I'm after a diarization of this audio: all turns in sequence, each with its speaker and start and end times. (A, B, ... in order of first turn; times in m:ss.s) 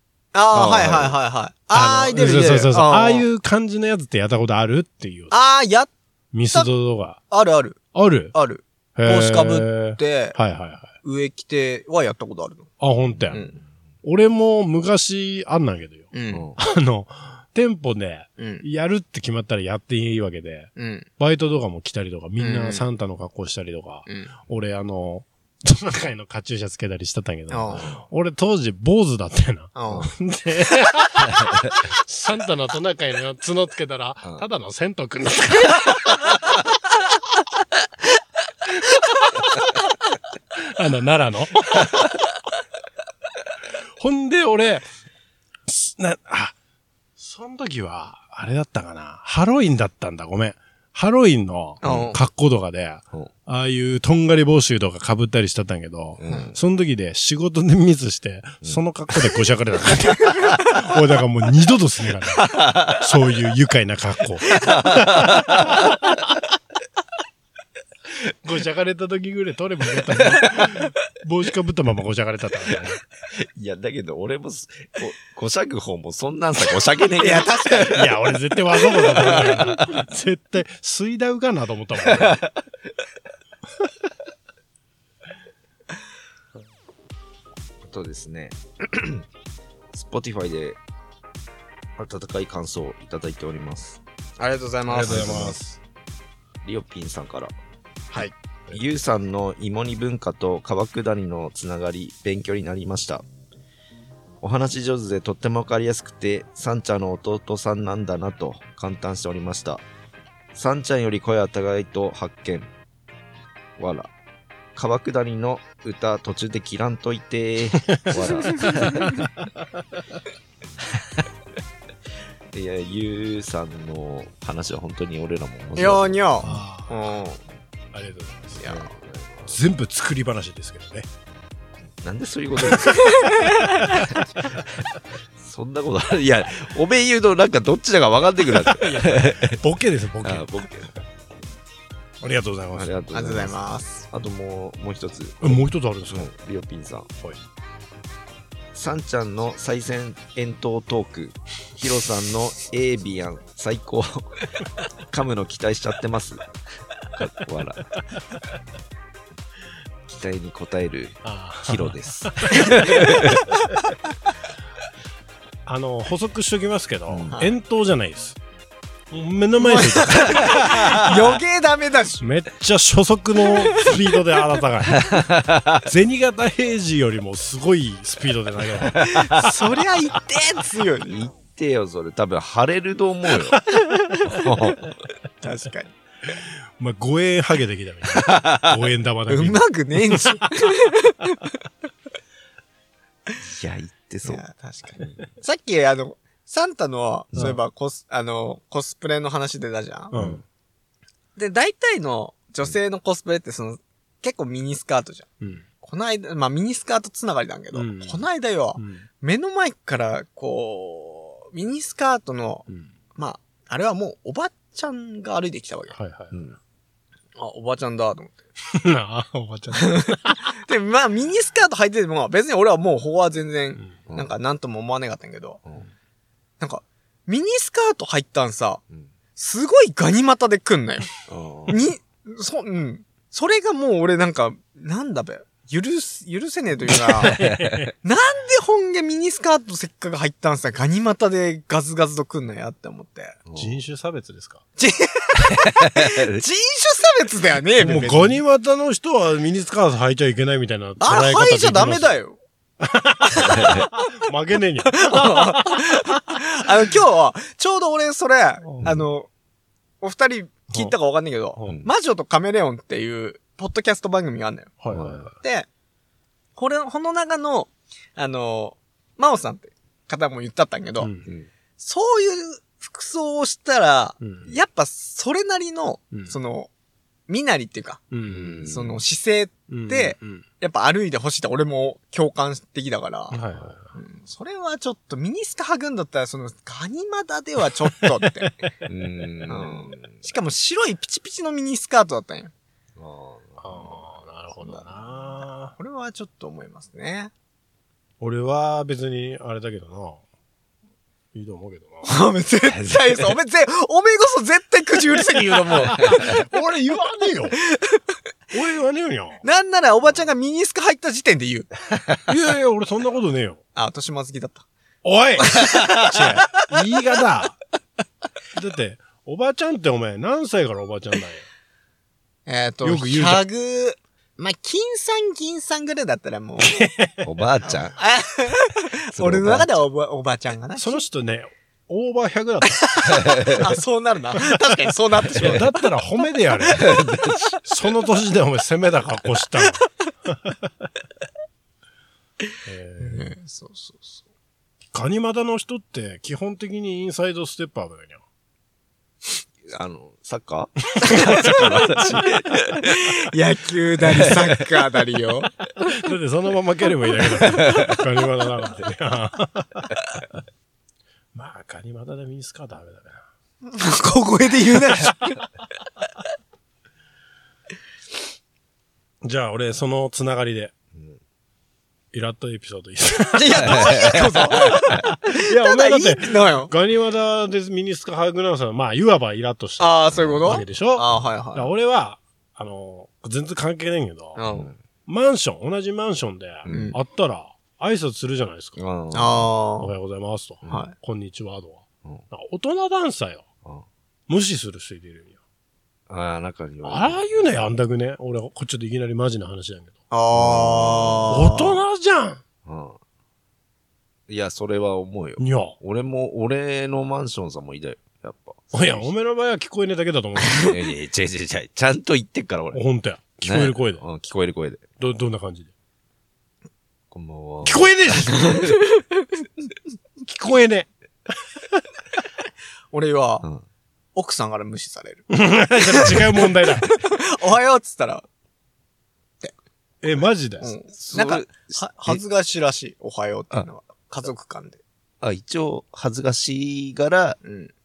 0:00.3-0:03.3 A
0:00.5-0:01.2 B
0:01.7-0:05.3 C
0:05.3-0:05.9 A
0:06.3-0:07.2 C
0:07.3-0:07.8 A
0:07.9-0:08.4 C
0:08.3-0:10.4 A
0:09.0-0:10.9 C
0:11.0-0:12.7 A
0:12.8-0:13.5 C
0:13.3-0:13.6 A
0:14.0-0:36.2 C
0:16.1-0:16.5 A
0:16.3-0:16.6 B
0:18.4-0:18.6 A
0:20.8-0:21.1 A
0:22.4-0:22.8 A
0:24.1-0:24.3 A
0:27.5-0:27.9 A
0:29.8-0:30.1 A
0:31.3-0:31.7 B
0:40.6-0:42.1 C
0:44.0-0:44.9 C
0:45.7-0:46.6 C
0:47.2-1:06.0 C
0:51.8-0:52.2 A
0:51.8-0:52.1 B
0:56.2-0:56.6 B
1:02.4-1:03.0 B
1:04.5-1:06.0 B
1:08.4-1:13.0 C
1:13.6-1:18.0 B
1:17.2-1:18.1 A
1:17.9-1:22.4 C
1:19.1-1:20.0 B
1:22.1-1:22.5 B
1:27.9-1:29.2 B
1:29.9-1:30.8 B
1:32.0-1:34.0 B
1:34.4-1:35.5 A
1:34.9-1:35.8 C
1:35.0-1:35.6 B
1:36.6-1:37.5 B
1:38.1-1:38.8 C
1:38.7-1:43.2 B
1:44.4-1:49.8 B
1:50.6-1:52.7 B
1:53.8-1:54.1 B
1:54.8-1:59.3 B
1:58.0-2:00.0 C
2:02.5-2:06.6 B
2:05.8-2:07.4 A
2:06.4-2:06.9 C
2:07.9-2:08.7 C
2:08.6-2:08.9 A
2:08.6-2:09.6 B
2:09.5-2:11.1 C
2:12.0-2:14.6 B
2:12.7-2:14.2 A
2:15.4-2:19.6 B
2:18.7-2:20.5 C
2:20.2-2:21.0 B
2:22.2-2:23.0 C
2:22.8-2:23.6 B
2:23.1-2:24.0 A
2:24.1-2:27.1 B
2:25.4-2:26.3 C
2:28.7-2:34.5 B
2:35.1-2:36.4 B
2:37.2-2:37.9 B
2:40.1-2:43.4 B
2:41.2-2:43.3 C
2:45.6-2:48.4 C
2:47.1-2:47.4 B
2:49.1-2:51.2 C
2:49.6-2:52.2 A
2:52.2-2:55.2 C
2:54.9-2:55.8 B
2:55.8-2:59.6 C
2:58.9-2:59.3 B
2:59.0-3:01.1 A
3:01.0-3:03.6 B
3:03.9-3:04.2 A
3:04.3-3:04.9 B
3:05.4-3:05.9 A
3:06.3-3:10.4 C
3:08.2-3:08.6 B
3:09.3-3:11.5 A
3:13.4-3:14.4 B
3:14.2-3:20.2 A
3:20.1-3:20.4 C
3:20.2-3:20.4 B
3:21.4-3:25.3 A
3:25.8-3:36.0 A
3:27.7-3:28.2 C
3:28.8-3:29.1 C
3:35.9-3:36.4 C
3:36.3-3:36.6 B
3:37.4-3:38.4 A
3:38.7-3:40.4 C
3:39.7-3:45.6 A
3:46.6-3:48.8 A
3:49.4-3:51.1 A
3:51.3-3:51.7 B
3:51.7-3:57.4 A
3:57.2-3:57.9 C
3:57.4-3:57.9 B
3:58.0-4:03.4 A
4:03.5-4:03.8 B
4:03.6-4:04.6 C
4:04.8-4:08.4 A
4:05.8-4:06.4 B
4:07.8-4:12.2 C
4:11.0-4:12.4 A
4:12.8-4:16.4 C
4:13.3-4:14.0 A
4:13.4-4:13.9 B
4:14.9-4:19.3 A
4:18.6-4:19.0 C
4:20.0-4:25.7 A
4:24.8-4:25.3 C
4:24.9-4:25.2 B
4:26.6-4:31.1 A
4:31.0-4:31.3 C
4:31.8-4:36.7 A
4:34.2-4:34.5 C
4:37.3-4:38.1 A
4:38.1-4:38.7 C
4:38.3-4:39.0 B
4:38.6-4:43.4 A
4:39.7-4:40.4 C
4:43.3-4:43.9 C
4:43.9-4:48.5 A
4:47.9-4:48.8 C
4:48.9-4:50.2 B
4:49.5-4:52.5 A
4:53.0-4:53.7 B
4:53.6-4:55.8 C
4:54.6-4:54.9 A
4:55.7-4:57.3 A
4:58.2-5:00.2 C
5:01.3-5:02.1 C
5:02.0-5:06.2 A
5:02.7-5:03.4 B
5:05.8-5:07.6 C
5:05.9-5:06.2 B
5:07.6-5:08.0 A
5:08.5-5:09.4 C
5:09.4-5:11.7 A
5:12.3-5:13.6 C
5:13.8-5:14.6 A
5:15.0-5:17.6 C
5:15.4-5:16.6 A
5:18.5-5:21.4 C
5:22.5-5:26.9 A
5:22.8-5:23.4 C
5:26.6-5:27.2 C
5:27.2-5:28.0 B
5:28.0-5:31.0 A
5:29.2-5:29.7 B
5:30.8-5:32.8 C
5:32.8-5:35.7 A
5:33.2-5:33.5 B
5:35.4-5:36.9 C
5:36.7-5:37.6 B
5:37.6-5:40.9 C
5:42.7-5:43.3 C
5:43.0-5:44.2 A
5:44.9-5:48.2 C
5:49.7-5:53.0 B
5:51.0-5:52.2 C
5:51.0-5:52.0 A
5:52.8-5:55.5 A
5:54.1-5:54.6 B
5:55.8-5:59.9 C
5:57.6-5:58.0 B
6:01.3-6:03.2 C
6:03.6-6:05.4 A
6:09.2-6:10.7 C
6:12.1-6:24.4 C
6:13.3-6:16.7 A
6:13.5-6:15.0 B
6:19.8-6:21.7 A
6:20.1-6:20.6 B
6:24.4-6:24.7 A
6:25.1-6:28.8 C
6:26.6-6:27.0 B
6:26.7-6:27.0 A
6:28.8-6:29.5 B
6:29.1-6:29.9 A
6:29.8-6:33.5 C
6:30.7-6:30.9 A
6:34.3-6:35.4 C
6:36.1-6:37.2 B
6:36.9-6:40.0 C
6:40.1-6:41.8 A
6:40.3-6:41.3 B
6:41.3-6:42.4 C
6:42.6-6:43.0 B
6:44.3-6:49.1 B
6:45.4-6:45.8 C
6:48.7-6:50.7 C
6:50.4-6:50.7 A
6:50.6-6:52.8 B
6:52.7-6:54.0 C
6:53.4-6:54.9 B
6:55.0-6:55.7 C
6:57.1-6:58.7 B
6:57.6-6:58.6 C
7:00.2-7:00.9 C
7:02.9-7:03.4 A
7:04.2-7:08.3 A
7:05.3-7:06.9 C
7:10.0-7:10.7 C
7:10.6-7:14.8 A
7:10.9-7:12.2 B
7:15.2-7:17.4 B
7:17.4-7:17.7 A